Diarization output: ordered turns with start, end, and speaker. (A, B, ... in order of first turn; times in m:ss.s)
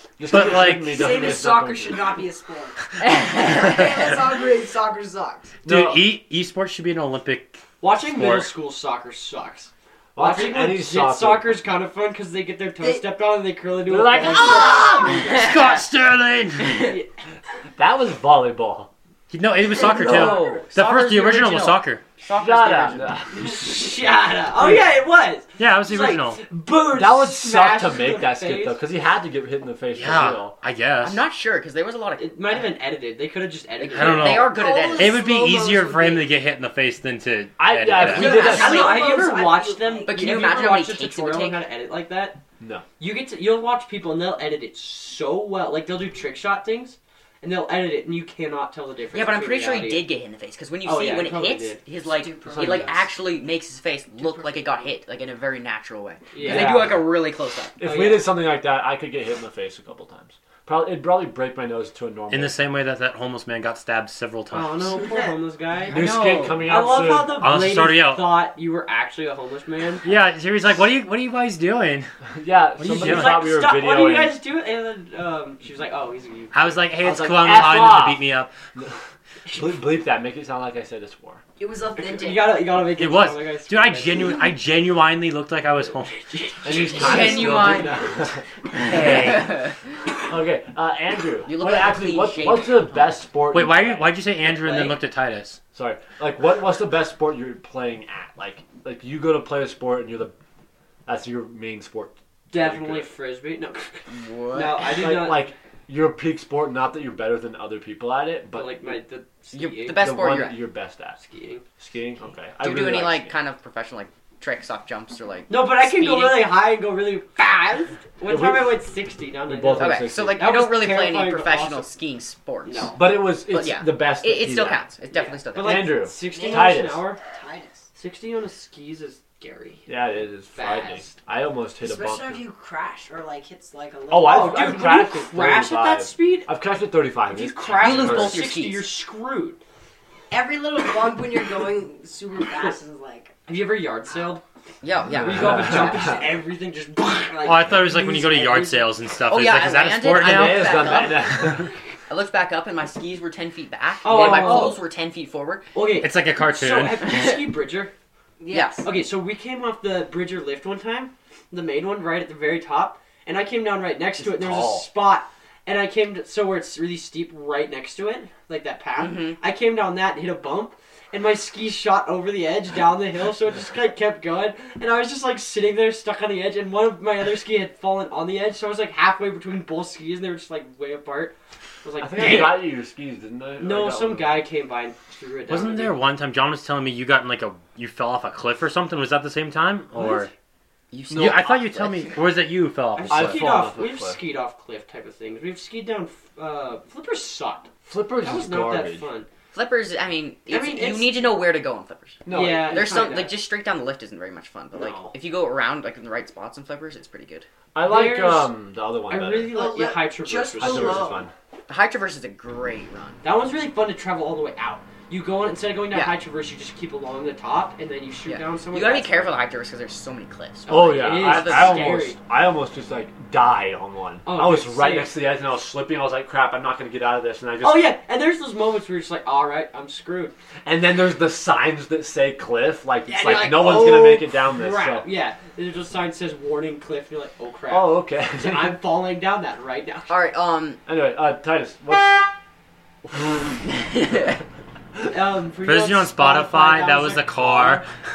0:00.2-0:02.2 A
0:00.3-0:01.1 B
0:00.4-0:05.6 C
0:03.0-0:04.0 D
0:05.6-0:06.1 A
0:05.6-0:08.5 B
0:07.8-0:15.5 E
0:10.1-0:11.5 A
0:12.8-0:13.0 C
0:13.9-0:15.2 A
0:14.4-0:15.3 C
0:15.1-0:15.8 D
0:15.1-0:16.9 B
0:16.6-0:17.0 D
0:17.8-0:18.9 A
0:19.3-0:22.0 B
0:19.7-0:23.1 D
0:19.8-0:20.6 C
0:22.3-0:24.0 A
0:23.4-0:28.8 E
0:24.5-0:24.8 A
0:25.6-0:26.4 B
0:26.9-0:30.5 A
0:29.9-0:31.2 B
0:31.0-0:32.7 D
0:32.2-0:34.5 E
0:33.8-0:35.2 D
0:33.9-0:38.5 B
0:34.4-0:36.3 C
0:37.6-0:39.0 A
0:38.0-0:40.4 C
0:38.2-0:42.4 E
0:38.2-0:39.2 D
0:40.0-0:41.6 D
0:42.6-0:42.8 A
0:43.0-0:50.0 E
0:49.1-0:57.8 D
0:50.8-0:51.8 E
0:52.0-0:53.1 C
0:52.4-0:52.9 E
0:54.1-0:54.9 C
0:56.3-0:57.0 E
0:56.4-0:57.0 A
0:57.8-1:02.6 A
0:57.8-0:58.2 E
1:02.3-1:04.9 B
1:04.5-1:06.0 E
1:05.1-1:05.3 C
1:05.9-1:07.0 D
1:05.9-1:07.4 A
1:06.6-1:10.0 E
1:07.3-1:08.4 B
1:10.0-1:12.1 B
1:12.4-1:14.3 A
1:12.8-1:13.5 B
1:12.9-1:16.8 E
1:16.5-1:18.5 B
1:17.0-1:21.4 A
1:21.6-1:22.6 C
1:22.0-1:24.4 E
1:23.0-1:26.3 B
1:26.6-1:29.4 A
1:26.6-1:27.8 E
1:26.9-1:28.0 D
1:27.3-1:27.6 C
1:28.8-1:29.6 B
1:29.0-1:29.8 D
1:30.3-1:34.2 A
1:31.4-1:33.0 D
1:33.5-1:35.6 B
1:34.5-1:35.0 E
1:35.7-1:40.3 A
1:41.0-1:43.1 A
1:42.5-1:45.5 E
1:44.1-1:44.8 D
1:44.9-1:48.7 A
1:48.5-1:50.1 E
1:49.5-1:50.6 D
1:50.0-1:51.2 A
1:51.2-1:51.6 E
1:51.8-1:53.4 A
1:52.6-1:56.5 D
1:55.5-2:01.9 E
1:58.2-1:58.8 A
1:59.5-2:00.4 A
1:59.8-2:06.0 D
2:02.6-2:03.0 E
2:02.9-2:04.8 A
2:05.1-2:07.2 E
2:05.6-2:07.0 A
2:06.2-2:07.9 C
2:07.9-2:09.9 E
2:09.9-2:12.4 A
2:10.5-2:11.1 E
2:11.8-2:14.7 C
2:14.1-2:18.4 A
2:14.2-2:16.5 E
2:17.3-2:19.6 E
2:17.7-2:18.9 D
2:20.3-2:23.3 C
2:23.4-2:24.4 E
2:24.8-2:26.2 D
2:25.1-2:26.2 A
2:25.2-2:28.9 E
2:27.4-2:31.0 B
2:29.3-2:35.7 D
2:30.1-2:31.7 A
2:34.0-2:34.8 E
2:34.1-2:34.8 A
2:35.7-2:37.9 E
2:36.0-2:37.0 B
2:37.1-2:37.4 D
2:38.4-2:38.9 C
2:38.5-2:38.9 D
2:38.8-3:02.7 E
2:44.2-2:44.9 A
2:49.0-2:49.4 D
3:02.0-3:04.4 A
3:03.6-3:06.0 E
3:05.5-3:10.3 B
3:09.9-3:10.3 E
3:10.9-3:12.2 D
3:11.1-3:13.5 B
3:12.9-3:17.7 E
3:13.1-3:14.2 A
3:17.8-3:19.1 A
3:18.2-3:19.3 E
3:19.5-3:27.5 D
3:20.5-3:21.2 E
3:22.2-3:23.2 A
3:22.3-3:23.4 E
3:24.8-3:25.1 E
3:27.7-3:29.6 A
3:27.8-3:28.5 E
3:29.1-3:31.2 E
3:29.5-3:31.3 C
3:30.6-3:31.3 A
3:31.7-3:33.2 D
3:33.2-3:39.4 E
3:35.9-3:36.2 D
3:38.2-3:42.0 D
3:40.7-3:47.9 A
3:40.7-3:42.2 E
3:44.2-3:45.2 E
3:47.6-3:50.3 E
3:50.6-3:55.1 A
3:53.1-4:00.2 E
3:57.7-3:58.8 A
4:00.1-4:00.8 D
4:00.8-4:02.3 A
4:03.0-4:03.6 A
4:03.7-4:04.3 D
4:05.1-4:07.9 E
4:05.6-4:07.9 B